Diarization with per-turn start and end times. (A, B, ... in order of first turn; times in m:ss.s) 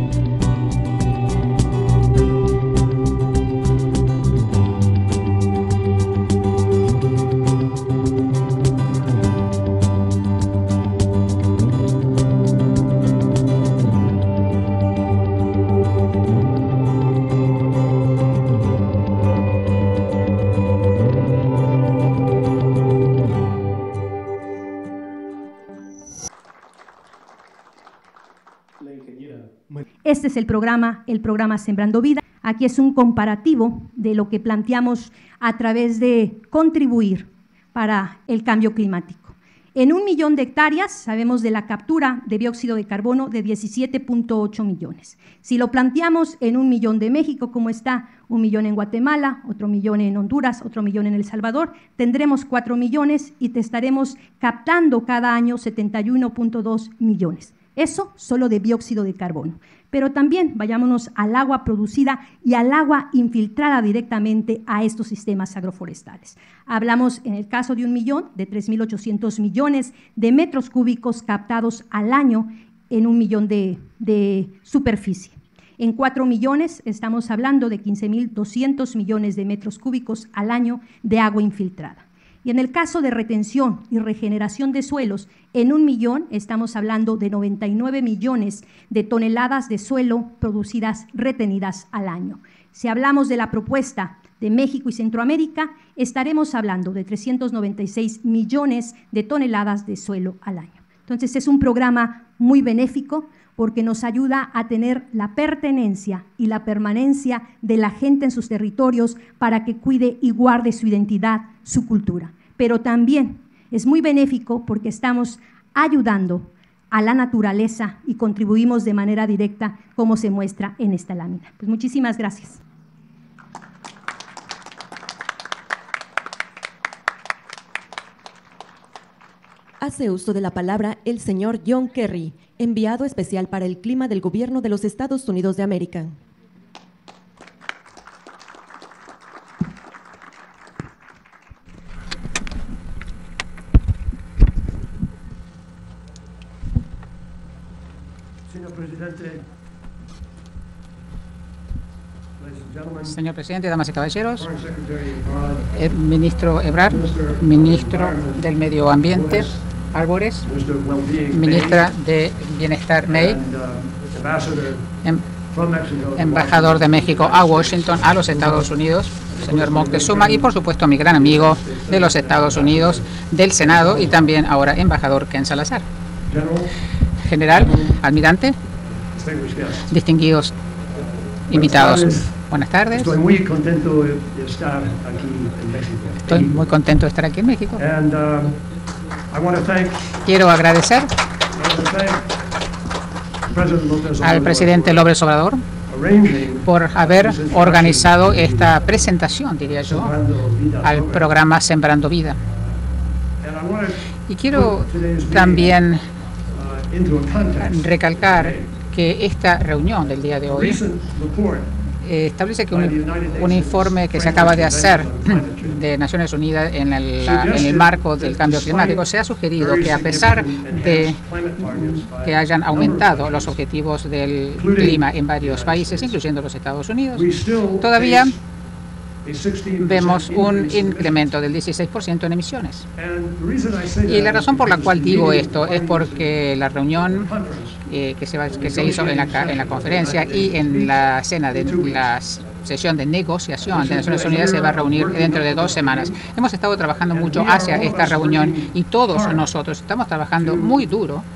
0:28.8-0:29.8 A
0:30.0-2:02.6 B
2:09.8-2:16.2 C
2:28.5-2:29.5 A
2:32.4-2:33.2 A
2:33.1-2:34.5 D
2:34.4-2:35.7 A
2:35.7-2:40.5 D
2:36.9-2:39.7 A
2:40.4-2:41.9 A
2:41.3-2:43.4 D
2:43.1-2:44.9 A
2:45.5-2:48.8 A
2:46.2-2:55.8 D
2:49.3-2:50.5 A
2:51.1-2:54.2 A
2:56.3-2:56.7 A
2:57.2-2:58.6 D
2:57.5-2:58.0 A
2:59.1-2:59.9 A
2:59.9-3:00.5 D
3:01.5-3:02.4 A
3:01.5-3:03.2 D
3:02.9-3:06.6 A
3:06.3-3:07.8 D
3:07.8-3:08.6 A
3:09.3-3:10.2 A
3:10.2-3:11.1 D
3:11.6-3:12.3 A
3:13.5-3:15.1 A
3:14.2-3:15.6 D
3:15.9-3:18.8 A
3:16.6-3:20.1 D
3:19.8-3:21.4 A
3:20.8-3:22.4 D
3:22.4-3:22.8 A
3:23.4-3:25.8 A
3:24.3-3:26.0 D
3:26.5-3:28.8 A
3:27.6-3:30.8 D
3:30.5-3:31.7 A
3:32.0-3:47.3 D
3:32.7-3:35.8 A
3:37.2-3:43.6 A
3:44.6-3:46.2 A
3:47.1-3:48.4 A
3:47.8-3:48.4 D
3:49.2-3:51.4 A
3:49.8-3:52.9 D
3:53.0-3:56.4 A
3:54.0-3:57.3 D
3:57.1-3:57.8 A
3:57.9-4:11.2 D
3:58.5-4:01.0 A
4:01.5-4:02.1 A
4:03.7-4:06.2 A
4:07.1-4:09.5 A
4:10.4-4:10.8 A